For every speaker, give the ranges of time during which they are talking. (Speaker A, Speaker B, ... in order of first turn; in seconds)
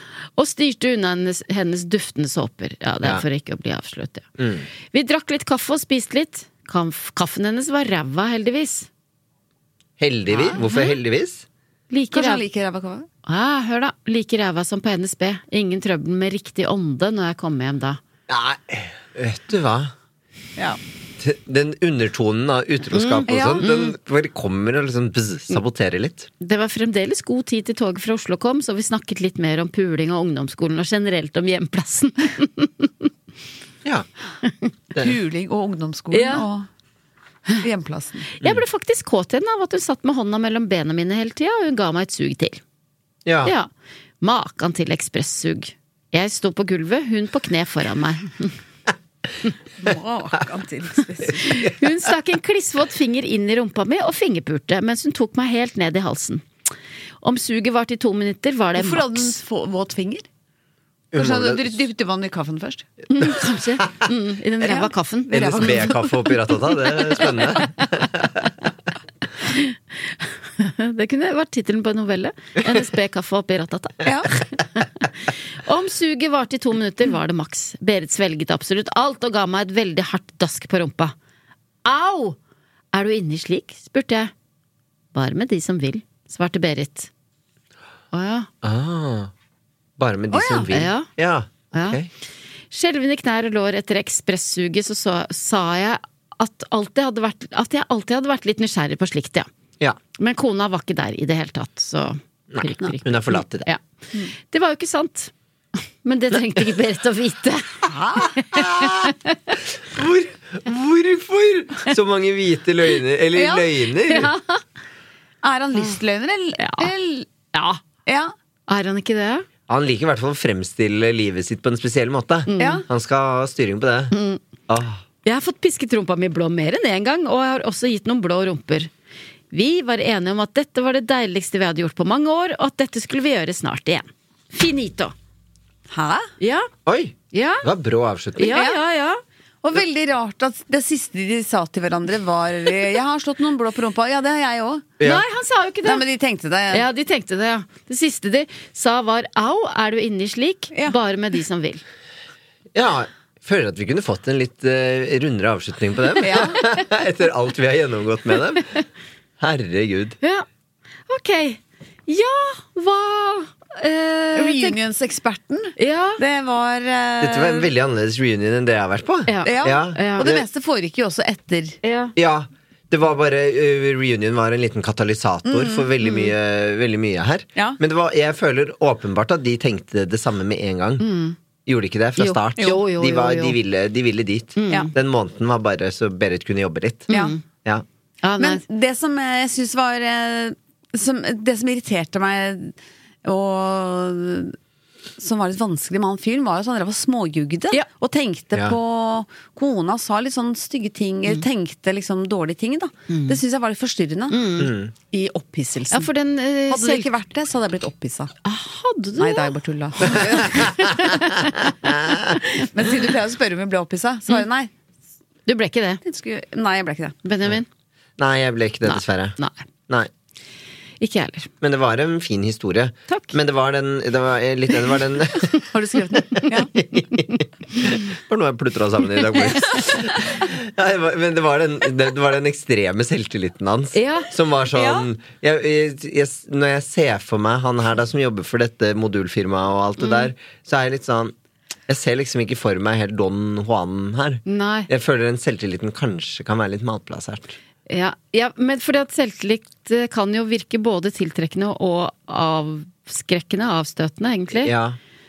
Speaker A: 0.4-4.3, 4.9-8.9, 11.9-12.4, 13.3-18.0, 22.9-23.9, 26.4-33.1, 36.1-36.5, 38.4-42.6, 44.2-48.5, 51.3-56.5, 57.2-59.4, 63.1-66.0, 67.6-68.5, 69.4-75.1, 75.6-81.1, 81.8-82.4, 82.9-84.3, 85.1-87.1, 88.1-88.5, 90.7-91.1, 91.7-92.0, 92.7-99.5, 100.2-103.8, 104.4-105.3, 106.0-107.8, 108.3-109.5, 114.1-114.6, 116.6-116.9, 117.5-117.8, 118.7-119.5, 122.5-122.8, 124.1-124.4, 125.2-128.9, 129.5-135.1, 136.4-136.7, 137.3-137.7, 138.4-139.2, 145.0-146.0, 146.7-151.8, 161.1-164.8, 165.8-166.2, 169.3-170.3, 171.8-172.1, 176.0-176.3, 181.0-181.4, 182.2-183.6, 184.6-184.9, 187.1-187.4, 188.2-188.6, 203.1-203.4, 204.3-204.7, 205.9-207.1, 208.4-211.7, 212.4-212.7, 215.5-216.0, 217.2-217.7, 218.9-219.6, 221.0-221.5, 233.9-234.3, 240.0-240.3, 244.5-244.9, 247.9-254.7
Speaker B: 4.4-4.7, 10.0-11.4, 18.3-19.9, 21.2-26.3, 43.2-43.5, 61.1-61.8, 65.3-68.3, 88.6-89.3, 90.0-92.1, 102.5-103.7, 108.5-109.1, 109.9-114.3, 119.7-124.1, 124.7-125.0, 136.8-138.6, 152.8-158.7, 159.4-160.2, 167.2-170.4, 172.2-181.1, 181.7-187.1, 204.6-204.9, 211.8-212.3, 218.2-219.4, 221.6-225.6, 226.8-241.3, 241.9-247.6, 254.6-255.0
Speaker C: 10.3-10.7, 12.1-13.1, 23.3-23.7, 35.0-36.7, 37.6-38.3, 49.8-51.4, 58.8-60.3, 61.1-62.9, 64.6-66.4, 74.0-74.3, 90.3-90.7, 107.9-108.4, 113.3-113.8, 115.4-117.3, 118.1-118.3, 122.6-122.8, 135.9-136.3, 138.4-138.8, 139.6-144.9, 145.8-146.9, 156.2-156.6, 164.3-167.7, 169.4-171.8, 175.5-175.9, 188.4-194.6, 195.2-204.4, 205.1-206.1, 206.7-208.3, 209.2-210.7, 212.6-214.7, 216.0-217.2, 225.7-226.7, 234.8-235.1